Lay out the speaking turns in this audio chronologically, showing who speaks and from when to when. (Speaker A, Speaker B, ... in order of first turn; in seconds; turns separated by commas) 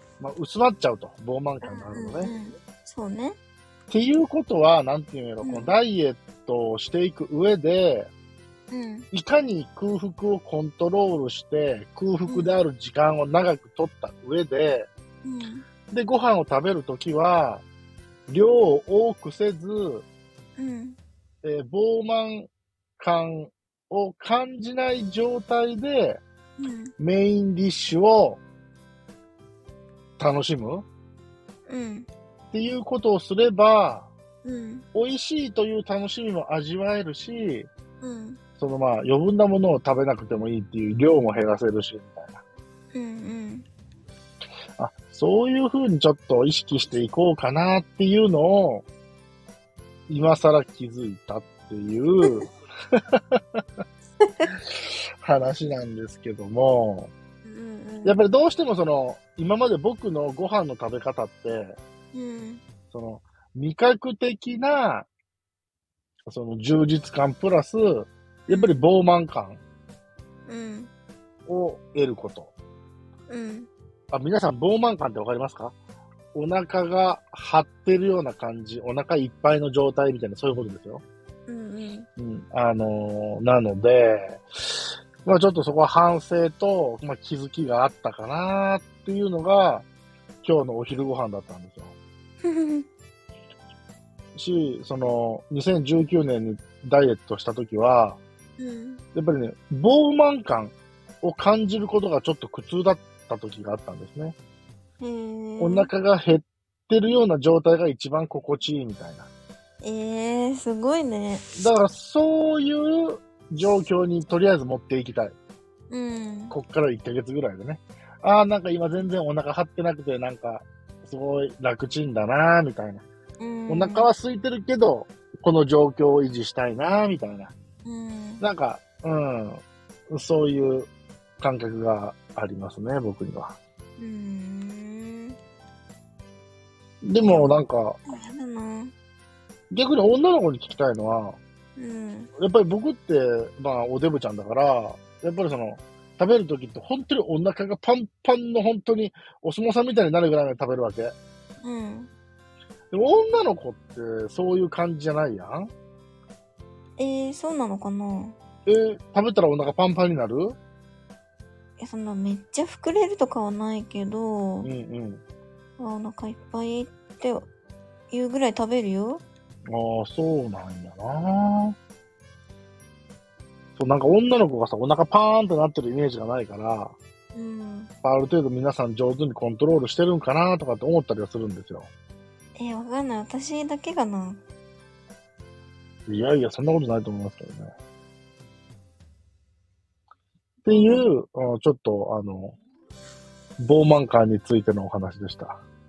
Speaker A: 0.2-2.3, Speaker B: 1.6-3.4, Speaker A: 3.9-8.1, Speaker B: 5.4-5.7, Speaker B: 8.7-9.1, Speaker A: 9.1-14.9, Speaker B: 15.2-15.7, Speaker A: 15.9-17.6, Speaker A: 18.3-20.1, Speaker B: 20.6-21.0, Speaker A: 21.4-26.2, Speaker B: 26.6-26.9, Speaker A: 27.0-28.4, Speaker A: 30.2-30.9, Speaker B: 31.7-32.1, Speaker A: 32.5-34.1, Speaker B: 34.4-34.8, Speaker A: 34.9-37.7, Speaker B: 38.0-38.4, Speaker A: 38.6-42.4, Speaker B: 42.9-43.6, Speaker A: 44.8-48.8, Speaker A: 50.1-52.5, Speaker A: 54.7-57.1, Speaker B: 57.5-58.2, Speaker A: 58.0-61.8, Speaker B: 62.1-62.6, Speaker A: 62.9-65.1, Speaker A: 66.3-69.6, Speaker B: 68.5-68.8, Speaker B: 70.5-70.9, Speaker A: 71.5-72.5, Speaker B: 73.3-73.7, Speaker A: 74.1-75.8, Speaker A: 76.3-81.0, Speaker B: 81.5-82.1, Speaker A: 82.2-84.4, Speaker A: 85.2-89.8, Speaker A: 90.4-91.9, Speaker B: 92.4-92.9, Speaker A: 94.3-98.2, Speaker B: 98.6-99.0, Speaker A: 99.1-104.3, Speaker B: 105.0-105.9, Speaker A: 105.6-109.3, Speaker B: 109.8-111.5, Speaker A: 111.6-115.3, Speaker B: 115.9-116.5, Speaker A: 116.5-123.0, Speaker B: 123.4-124.1, Speaker A: 123.7-127.5, Speaker B: 127.8-128.4, Speaker A: 128.4-130.9, Speaker A: 131.4-133.6, Speaker B: 134.0-135.4, Speaker A: 137.0-138.0, Speaker B: 137.2-138.9, Speaker A: 139.7-141.4, Speaker B: 141.8-142.3, Speaker A: 142.4-151.1, Speaker B: 151.6-152.1, Speaker A: 152.9-155.7, Speaker B: 157.0-158.3, Speaker A: 158.7-160.6, Speaker B: 161.8-164.7, Speaker A: 164.6-165.2, Speaker B: 165.8-167.5, Speaker B: 168.1-169.2, Speaker A: 169.7-171.8, Speaker A: 173.8-176.9, Speaker B: 177.3-177.9, Speaker A: 178.0-181.9, Speaker B: 182.6-184.4, Speaker A: 186.1-187.7, Speaker A: 190.6-192.6, Speaker B: 190.7-191.1, Speaker A: 193.6-195.6